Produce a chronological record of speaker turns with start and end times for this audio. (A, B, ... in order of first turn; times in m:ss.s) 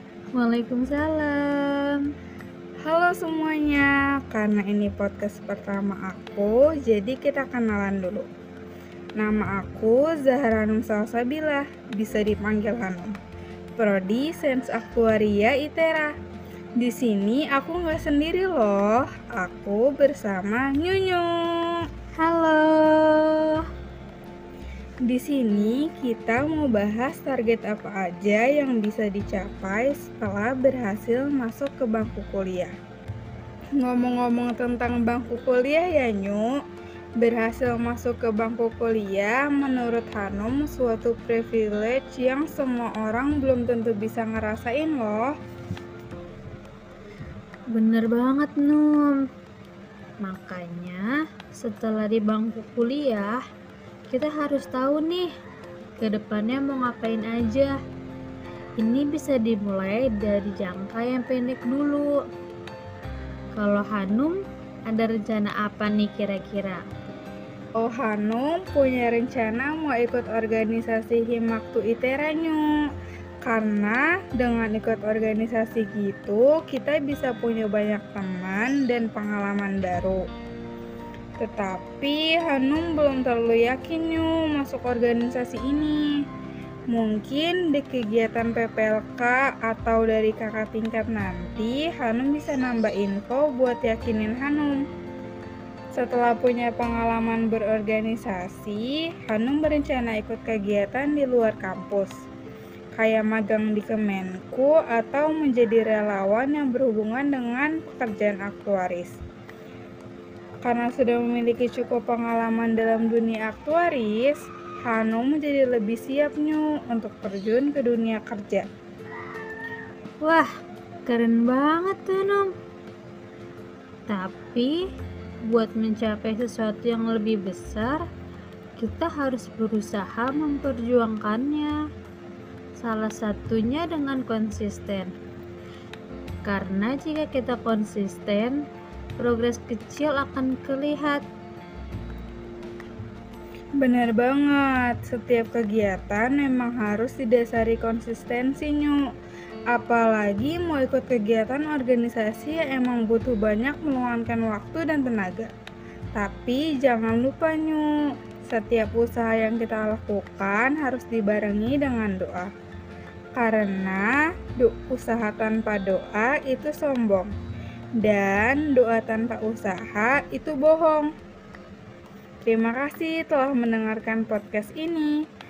0:00.3-0:02.1 A
0:02.8-0:08.3 B
0:09.2-0:13.2 B
0:13.8-0:16.1 B
0:16.8-0:21.9 B
0:22.2-0:23.6 A
0:25.0-0:32.7 B
0:33.8-0:36.6 B
0:37.2-0:45.3 B
0:47.7-0:49.2 A
0:50.2-0:53.4 A
0:54.1-0:55.3 A
0:56.0-0:57.8 A
0:58.8-1:02.1 A
1:03.6-1:06.8 A
1:07.8-1:12.6 B
1:13.4-1:20.2 B
1:21.4-1:26.0 B
1:26.9-1:34.8 B
1:35.9-1:42.2 B
1:43.0-1:49.2 B
1:50.6-1:58.6 B
2:01.1-2:02.5 A
2:04.1-2:04.8 A
2:05.5-2:08.0 A
2:08.8-2:11.7 A
2:12.8-2:15.1 A
2:16.5-2:18.6 A
2:19.2-2:21.2 A
2:23.8-2:29.0 B
2:29.7-2:35.5 B
2:36.2-2:37.9 B
2:38.4-2:42.5 B
2:43.4-2:47.3 B
2:48.0-2:51.1 B
2:52.4-2:55.1 B